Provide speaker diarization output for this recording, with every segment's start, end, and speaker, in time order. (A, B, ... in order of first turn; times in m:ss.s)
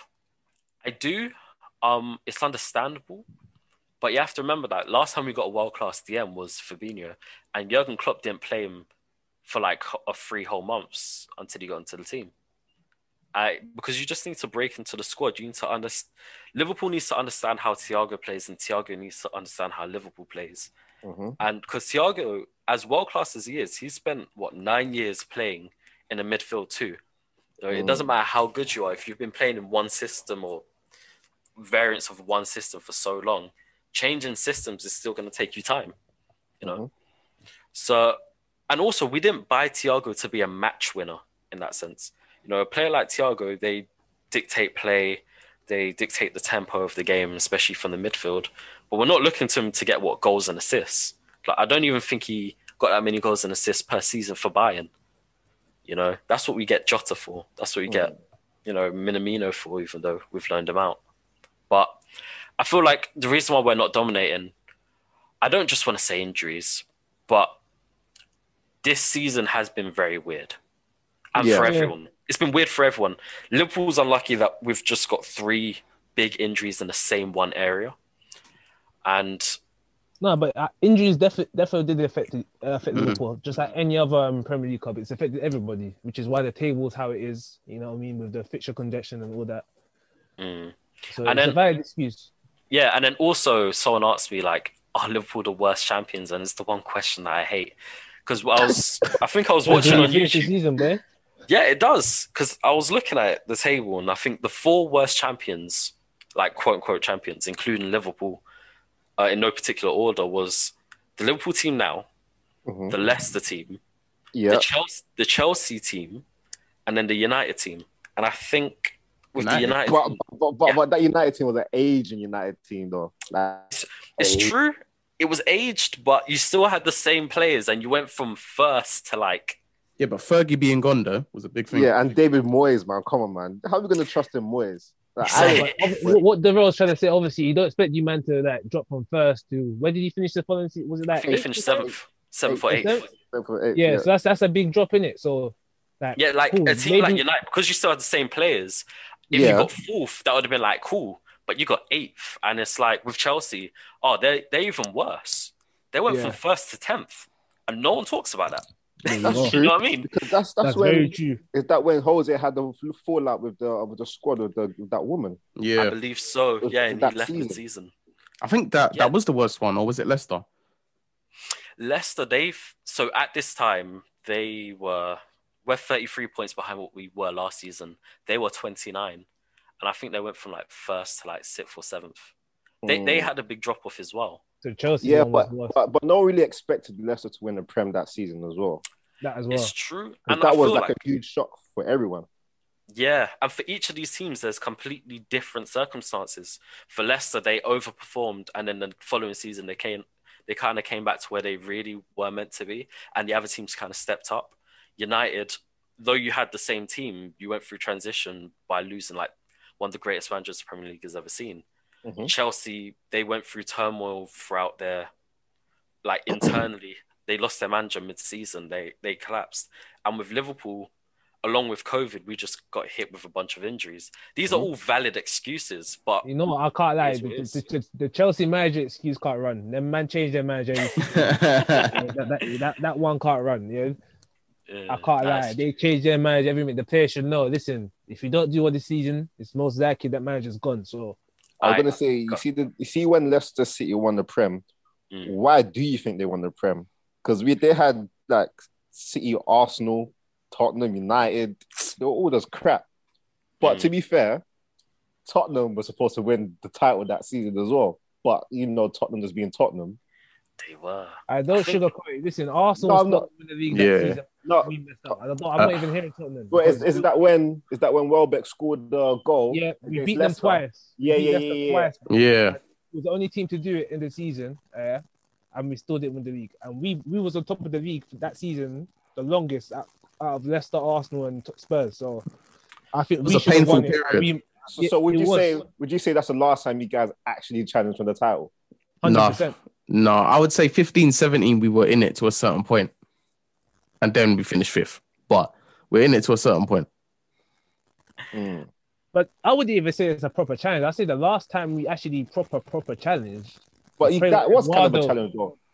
0:00.8-0:03.2 A
0:04.0-0:08.9 A
0:09.4-0:12.3 A
0:13.3-0:20.7 A
0:21.0-0:21.4 B
0:21.4-0:27.0 A
0:27.6-0:30.6 A
0:27.7-0:28.1 B
0:31.6-0:35.9 A
0:36.6-0:36.9 B
0:37.7-0:38.2 A
0:38.7-0:54.9 A
0:55.9-0:58.1 A
0:57.9-0:58.1 B
0:58.6-1:01.0 A
1:01.7-1:02.0 A
1:02.6-1:04.5 A
1:05.4-1:07.6 A
1:08.8-1:10.6 A
1:11.3-1:18.0 A
1:11.4-1:11.7 B
1:11.6-1:11.9 C
1:19.0-1:19.6 A
1:20.2-1:29.6 C
1:22.9-1:23.2 D
1:30.4-1:31.6 A
1:31.1-1:32.3 C
1:32.7-1:37.7 A
1:38.2-1:40.5 A
1:39.6-1:41.0 C
1:41.5-1:48.4 A
1:49.2-1:52.1 A
1:52.7-1:53.0 B
1:52.9-1:53.8 A
1:54.3-1:54.6 B
1:54.5-1:56.2 A
1:56.9-2:00.8 A
1:59.4-1:59.8 D
1:59.8-2:04.5 B
2:03.7-2:09.6 A
2:10.0-2:11.9 D
2:11.7-2:16.2 B
2:15.2-2:16.1 A
2:15.3-2:21.5 C
2:21.1-2:23.1 A
2:21.2-2:21.9 B
2:22.5-2:24.1 B
2:22.7-2:23.1 C
2:23.7-2:27.2 C
2:26.2-2:40.1 A
2:29.3-2:29.7 B
2:36.1-2:36.4 C
2:39.0-2:39.6 C
2:39.2-2:45.4 B
2:40.6-2:41.4 C
2:45.6-2:45.9 D
2:45.8-2:47.9 A
2:46.6-2:47.6 B
2:48.4-2:50.4 D
2:51.8-2:59.2 A
2:59.8-3:02.3 A
3:02.8-3:03.3 B
3:02.9-3:04.4 A
3:04.6-3:05.8 C
3:05.0-3:08.8 B
3:09.2-3:09.7 C
3:09.5-3:10.9 A
3:10.3-3:12.2 B
3:12.9-3:31.6 A
3:32.0-3:32.3 B
3:32.2-3:35.1 A
3:36.0-3:40.9 A
3:36.3-3:36.6 B
3:41.4-3:46.2 A
3:46.2-3:51.4 C
3:47.0-3:47.6 A
3:51.0-3:52.0 D
3:51.9-3:54.0 C
3:54.7-3:55.6 A
3:54.9-4:01.2 C
4:01.6-4:02.4 A
4:01.6-4:04.6 B
4:05.2-4:12.8 B
4:13.6-4:14.4 B
4:13.6-4:13.9 A
4:15.2-4:20.0 B
4:20.6-4:21.8 A
4:21.3-4:27.0 C
4:22.8-4:23.3 B
4:23.7-4:24.2 D
4:24.4-4:24.7 B
4:26.5-4:31.9 B
4:29.5-4:35.0 C
4:32.1-4:32.6 D
4:35.5-4:42.2 C
4:42.9-4:45.6 C
4:43.2-4:44.3 D
4:44.7-4:48.5 B
4:49.0-4:49.6 C
4:49.0-4:52.9 D
4:54.0-4:56.9 D
4:58.3-4:58.7 B
4:59.1-5:05.2 C
5:04.0-5:05.6 B